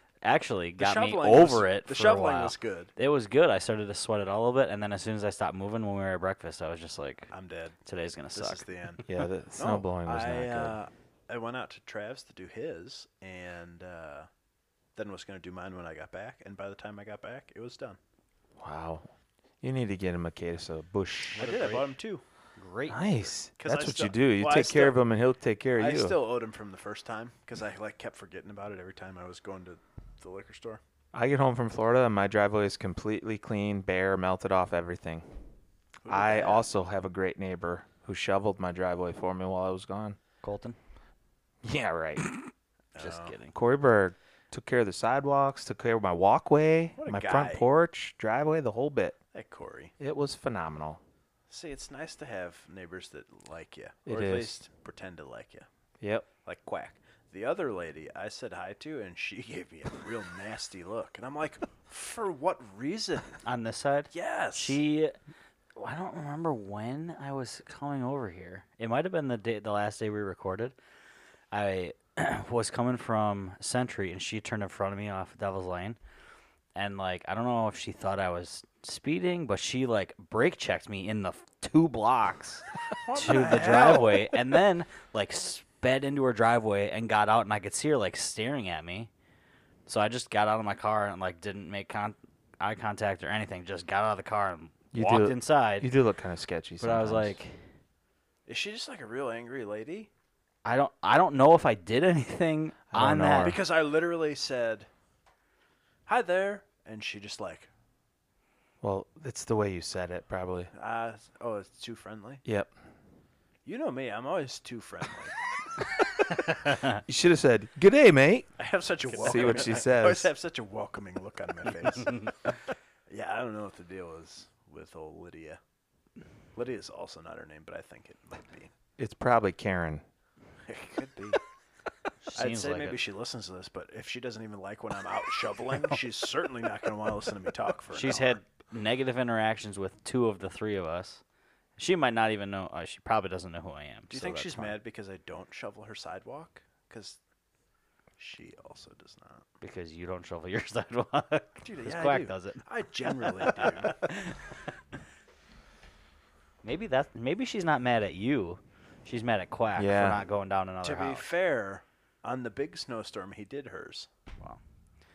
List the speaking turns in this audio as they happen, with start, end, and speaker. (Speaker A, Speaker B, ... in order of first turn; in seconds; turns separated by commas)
Speaker A: 0.2-7.3, Speaker B: 0.8-2.9, Speaker B: 7.3-7.8, Speaker A: 7.8-9.0, Speaker B: 8.3-14.3, Speaker C: 9.1-10.8, Speaker B: 14.9-18.0, Speaker C: 18.6-19.1, Speaker C: 19.6-21.4, Speaker B: 21.3-22.2, Speaker A: 21.4-21.9, Speaker A: 22.6-23.2, Speaker C: 22.9-26.2, Speaker B: 23.6-25.0, Speaker B: 25.8-30.8, Speaker C: 31.1-35.3, Speaker B: 36.0-36.7, Speaker C: 36.1-40.2, Speaker A: 40.4-40.8, Speaker C: 41.6-42.3, Speaker B: 43.0-43.4, Speaker A: 43.0-43.5, Speaker C: 43.5-49.1, Speaker B: 47.0-47.6, Speaker B: 49.3-49.9, Speaker C: 50.0-51.0, Speaker B: 51.5-55.7, Speaker C: 54.0-54.5, Speaker C: 56.0-56.3, Speaker B: 56.4-63.4, Speaker A: 63.4-65.2, Speaker B: 64.1-64.8, Speaker A: 65.8-70.8, Speaker A: 71.5-76.0, Speaker A: 76.7-89.1, Speaker B: 83.0-84.4, Speaker A: 89.8-95.9, Speaker C: 94.9-97.4, Speaker A: 96.8-97.6, Speaker B: 98.5-100.1, Speaker A: 100.6-103.6, Speaker C: 102.9-103.6, Speaker B: 103.4-104.9, Speaker B: 106.1-107.7, Speaker C: 108.8-110.7, Speaker B: 110.7-112.4, Speaker C: 112.4-112.7, Speaker B: 113.6-115.4, Speaker A: 116.3-117.0, Speaker C: 117.0-118.5, Speaker B: 118.6-122.6, Speaker A: 119.2-119.8, Speaker C: 119.2-120.3, Speaker B: 123.1-125.6, Speaker B: 126.5-128.7, Speaker C: 129.0-130.0, Speaker B: 130.6-131.4, Speaker A: 132.2-133.0, Speaker B: 132.3-138.4, Speaker A: 137.9-141.2, Speaker A: 141.8-144.8, Speaker B: 144.1-147.2, Speaker B: 148.2-149.4, Speaker A: 149.6-154.6, Speaker B: 151.6-154.1, Speaker A: 156.6-161.3, Speaker C: 159.8-160.2, Speaker B: 160.8-164.1